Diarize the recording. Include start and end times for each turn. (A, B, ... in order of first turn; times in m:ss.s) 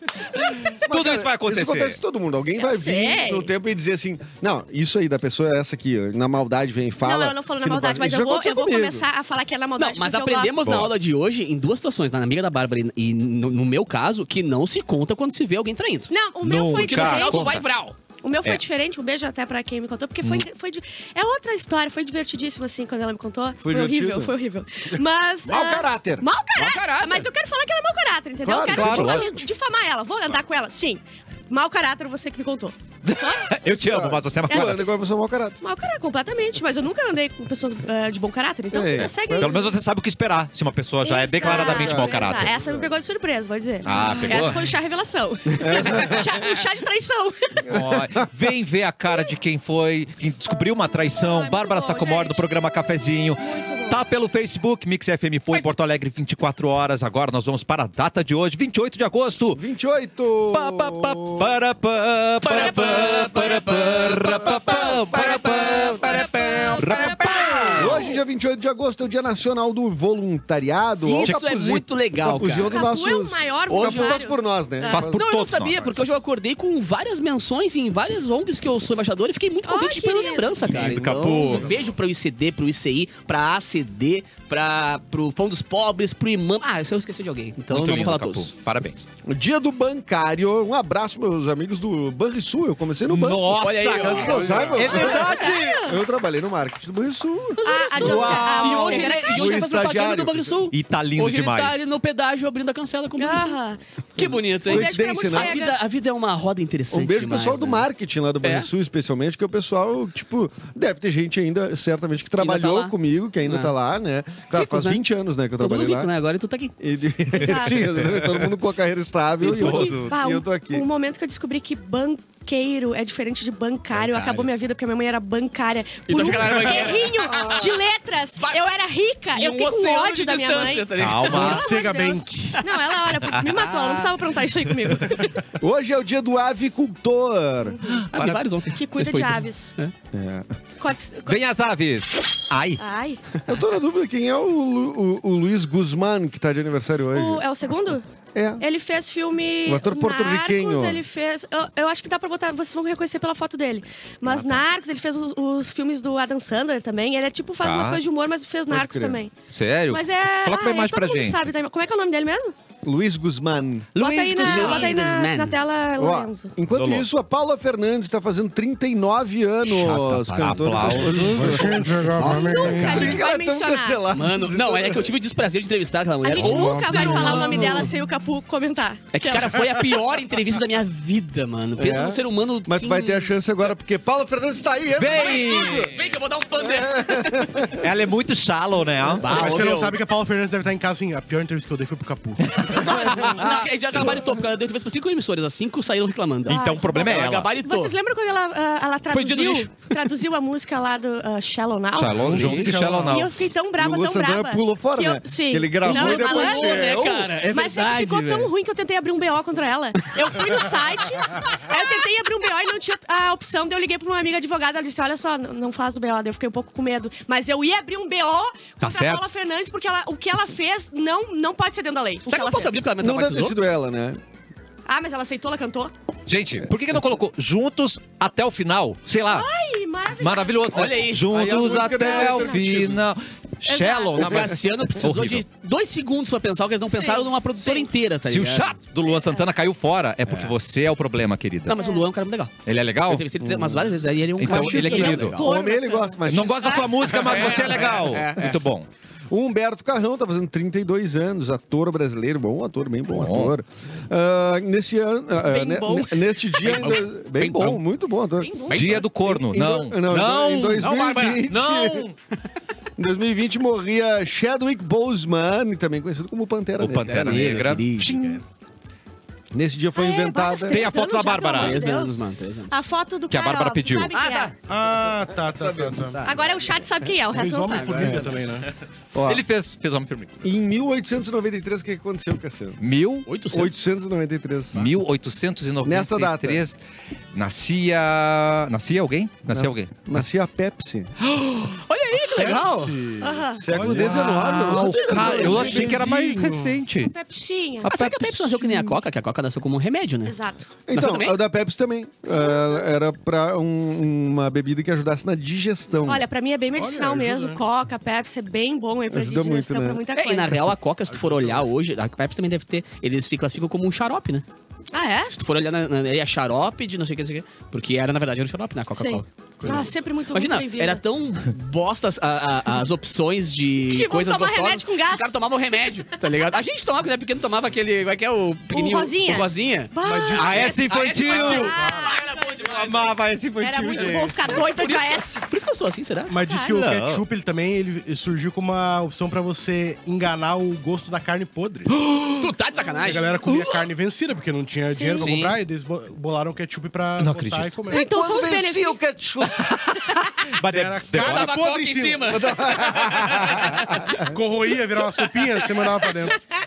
0:00.3-0:02.0 A
0:00.8-0:09.0 B
0:02.6-0:03.5 C
0:07.0-0:10.8 C
0:09.8-0:16.1 D
0:10.6-0:10.9 A
0:16.1-0:17.6 C
0:16.4-0:17.6 A
0:16.7-0:18.0 D
0:18.2-0:33.6 C
0:23.6-0:24.4 B
0:24.9-0:26.2 B
0:26.6-0:27.3 D
0:28.4-0:29.4 B
0:28.7-0:29.4 A
0:33.1-0:34.9 A
0:33.6-0:35.6 B
0:34.5-0:35.0 C
0:35.6-0:39.7 C
0:38.7-0:39.6 B
0:39.4-0:42.5 A
0:41.0-0:47.5 C
0:41.4-0:42.9 B
0:43.8-0:44.7 A
0:43.9-0:44.5 B
0:45.6-0:46.4 B
0:47.6-0:48.3 B
0:47.7-0:59.6 A
0:51.1-0:52.4 C
0:53.4-0:54.0 C
0:59.5-1:01.6 B
1:00.5-1:07.9 A
1:02.4-1:08.1 D
1:04.2-1:04.5 B
1:06.0-1:07.9 C
1:07.8-1:15.2 B
1:11.0-1:12.8 D
1:12.7-1:15.0 C
1:13.7-1:14.2 D
1:14.9-1:28.5 D
1:14.9-1:16.0 A
1:19.7-1:20.6 C
1:20.6-1:21.7 A
1:27.7-1:29.1 A
1:29.2-1:40.7 B
1:33.1-1:35.8 A
1:33.6-1:35.4 D
1:34.8-1:36.0 C
1:37.6-1:43.6 D
1:37.6-1:39.6 C
1:38.0-1:39.1 A
1:40.7-1:41.9 A
1:43.2-1:45.8 C
1:44.2-1:47.9 D
1:44.6-1:45.6 B
1:46.9-1:56.1 B
1:48.4-1:48.7 D
1:52.4-1:53.8 D
1:54.5-1:55.0 D
1:55.6-1:56.9 D
1:56.8-2:00.9 B
1:57.4-1:57.8 C
1:57.4-1:58.5 A
1:59.4-2:00.1 A
1:59.5-2:15.4 C
2:06.1-2:07.8 D
2:07.3-2:07.7 B
2:09.4-2:11.6 D
2:11.0-2:11.7 A
2:11.3-2:12.6 E
2:13.2-2:14.1 A
2:14.8-2:15.1 A
2:15.6-2:17.8 B
2:17.6-2:18.0 C
2:17.8-2:18.4 A
2:18.1-2:19.9 D
2:18.7-2:19.8 C
2:20.1-2:20.5 B
2:20.8-2:21.4 C
2:21.3-2:22.8 A
2:22.8-2:23.2 C
2:23.5-2:27.5 B
2:27.1-2:28.0 C
2:28.3-2:28.6 B
2:28.6-2:39.3 C
2:29.7-2:31.0 B
2:34.3-2:34.6 A
2:37.6-2:38.0 A
2:38.7-2:39.2 B
2:39.5-2:41.5 A
2:39.9-2:42.6 C
2:42.8-2:44.0 B
2:44.0-2:44.9 A
2:44.0-2:46.5 C
2:44.4-2:45.6 D
2:46.0-2:55.1 B
2:46.7-2:47.1 A
2:49.6-2:51.3 D
2:50.4-2:51.8 A
2:51.0-2:53.1 E
2:52.1-2:53.2 D
2:52.3-2:54.0 C
2:54.1-2:57.9 D
2:56.2-2:59.8 C
2:56.4-2:57.8 E
2:59.1-3:03.4 D
3:01.8-3:06.0 B
3:05.0-3:06.0 A
3:05.1-3:07.8 D
3:06.6-3:07.8 B
3:07.8-3:09.4 A
3:09.2-3:10.0 D
3:09.3-3:12.7 E
3:12.6-3:13.7 A
3:12.8-3:18.0 D
3:16.5-3:17.5 A
3:16.5-3:27.0 C
3:19.1-3:20.0 D
3:22.0-3:23.3 A
3:22.2-3:23.3 E
3:22.3-3:22.7 D
3:23.8-3:27.3 B
3:25.8-3:28.5 D
3:27.5-3:42.8 C
3:38.8-3:39.2 A
3:42.3-3:43.6 D
3:43.0-3:44.2 B
3:44.9-3:45.9 C
3:46.3-3:49.5 A
3:49.3-3:51.1 C
3:50.2-3:55.4 A
3:50.7-3:51.3 D
3:51.2-3:53.0 B
3:51.9-3:52.8 C
3:53.6-3:54.4 C
3:54.2-3:58.8 D
3:56.9-3:57.9 C
3:58.2-4:01.8 A
3:59.1-3:59.5 C
4:00.3-4:00.5 D
4:01.7-4:02.5 D
4:01.7-4:02.0 C
4:02.7-4:03.2 A
4:03.1-4:05.5 D
4:03.4-4:07.2 B
4:04.4-4:05.4 A
4:04.7-4:07.6 C
4:06.3-4:08.9 A
4:07.0-4:08.6 D
4:09.3-4:22.0 B
4:13.1-4:13.5 A
4:15.4-4:16.9 C
4:16.6-4:17.8 D
4:18.4-4:19.0 C
4:18.7-4:19.0 D
4:18.7-4:20.9 A
4:20.8-4:21.4 D
4:21.4-4:22.2 A
4:23.0-4:28.1 B
4:26.8-4:28.4 A
4:27.0-4:28.4 D
4:29.5-4:30.9 B
4:30.0-4:34.5 C
4:30.7-4:31.8 A
4:31.5-4:32.7 D
4:33.3-4:34.1 A
4:34.1-4:34.5 D
4:34.6-4:36.2 E
4:35.3-4:36.5 B
4:36.2-4:38.3 C
4:37.3-4:38.7 E
4:37.7-4:38.3 D
4:39.1-4:39.4 B
4:39.2-4:40.4 A
4:40.4-4:42.8 B
4:42.8-4:43.3 A
4:43.3-4:43.8 D
4:43.5-4:44.9 B
4:44.7-4:46.8 A
4:45.8-4:46.6 B
4:47.3-4:50.2 A
4:49.5-4:51.1 B
4:51.4-4:53.0 D
4:52.2-4:54.5 E
4:53.2-4:53.7 C
4:53.6-4:56.1 B
4:53.8-4:56.0 D
4:54.1-4:57.1 A
4:55.3-4:56.8 E
4:57.0-4:57.9 C
4:57.8-4:59.0 A
4:57.8-5:00.4 D
5:00.2-5:00.7 C
5:00.9-5:06.3 B
5:00.9-5:01.4 D
5:06.0-5:10.7 C
5:06.8-5:07.6 E
5:09.1-5:10.0 B
5:10.2-5:14.4 D
5:11.1-5:11.7 E
5:14.9-5:15.4 C
5:15.3-5:33.0 D
5:19.0-5:21.0 C
5:19.6-5:19.9 E
5:23.9-5:25.4 C
5:28.7-5:32.9 C
5:30.0-5:30.8 E
5:30.4-5:31.8 A
5:31.5-5:32.1 E
5:32.5-5:34.6 A
5:33.6-5:35.4 C
5:34.6-5:36.4 D
5:36.3-5:42.0 E
5:36.5-5:36.8 C
5:36.7-5:37.2 A
5:42.2-5:43.6 D
5:43.0-5:48.0 E
5:44.9-5:45.3 C
5:45.2-5:45.6 D
5:47.2-5:47.7 A
5:47.9-5:49.8 B
5:47.9-5:49.0 C
5:49.5-5:51.8 A
5:50.7-5:52.5 E
5:51.1-5:53.8 D
5:52.3-5:54.2 B
5:54.1-5:56.4 E
5:55.3-5:55.7 D